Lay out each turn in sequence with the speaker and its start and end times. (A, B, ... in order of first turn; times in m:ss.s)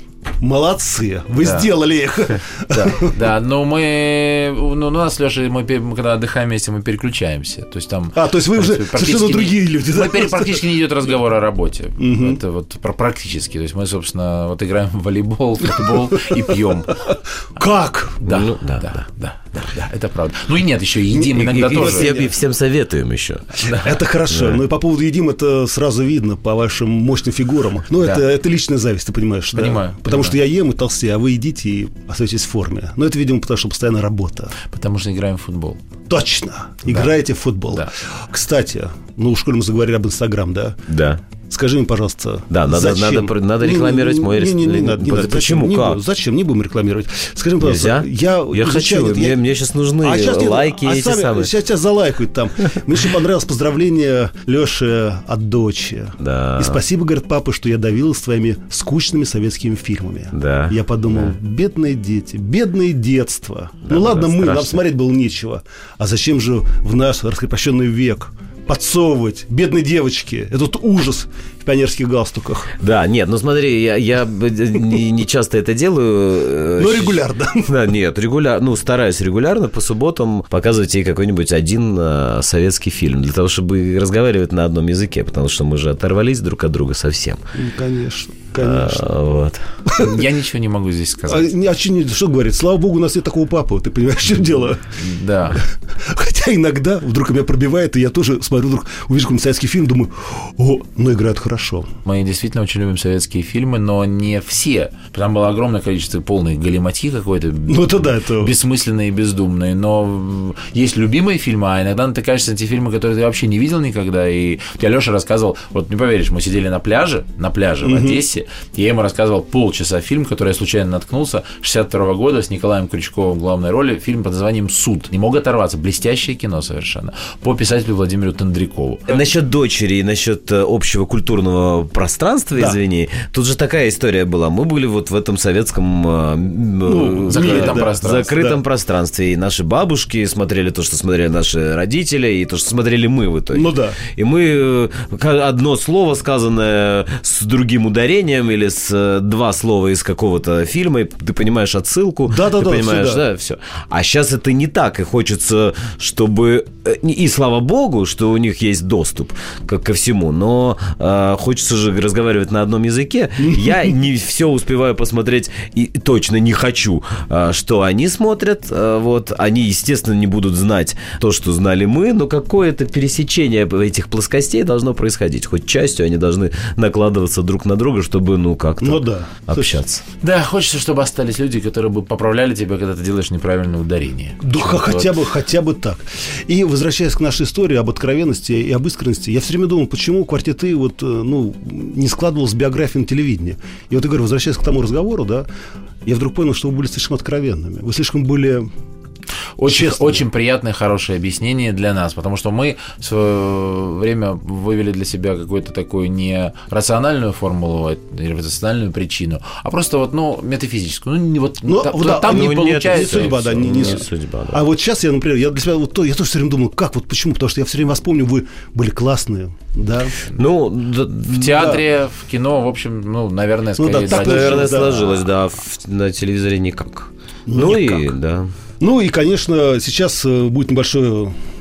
0:00.4-0:03.2 A
0:01.4-0:01.7 B
0:02.7-0:17.0 B
0:08.1-0:10.8 A
0:12.0-0:12.4 A
0:17.0-0:18.3 A
0:18.2-0:22.3 B
0:18.2-0:19.0 C
0:21.1-0:22.2 A
0:21.4-0:23.8 C
0:23.8-0:34.5 A
0:24.3-0:24.6 C
0:29.6-0:30.4 B
0:34.6-0:35.8 B
0:36.1-0:40.8 A
0:36.9-0:37.1 B
0:40.9-0:41.2 C
0:41.5-0:49.4 A
0:42.5-0:46.0 C
0:47.6-0:51.5 C
0:50.0-1:12.7 A
0:56.2-0:56.8 C
1:00.3-1:01.4 C
1:03.9-1:04.8 C
1:12.8-1:27.4 C
1:16.8-1:17.7 A
1:27.6-1:29.0 A
1:28.6-1:29.6 C
1:29.9-1:30.2 A
1:30.0-1:31.5 B
1:31.3-1:34.9 A
1:35.0-1:35.6 B
1:35.6-1:41.9 A
1:42.0-2:09.2 B
1:47.7-1:48.5 A
1:57.8-1:58.2 A
2:09.1-3:00.0 C
2:16.9-2:18.6 A
2:17.3-2:18.4 B
2:23.5-2:24.0 A
2:32.3-2:33.2 A
2:58.8-2:59.7 A
3:00.2-3:05.2 B
3:04.4-3:15.5 A
3:16.0-3:18.7 A
3:19.6-3:34.0 B
3:19.7-3:20.2 A
3:31.7-3:40.2 A
3:32.1-3:34.6 C
3:40.4-3:41.8 C
3:41.3-3:44.9 B
3:41.5-3:41.8 A
3:43.8-3:45.2 A
3:44.0-3:48.5 C
3:47.5-3:48.1 A
3:48.8-3:51.3 A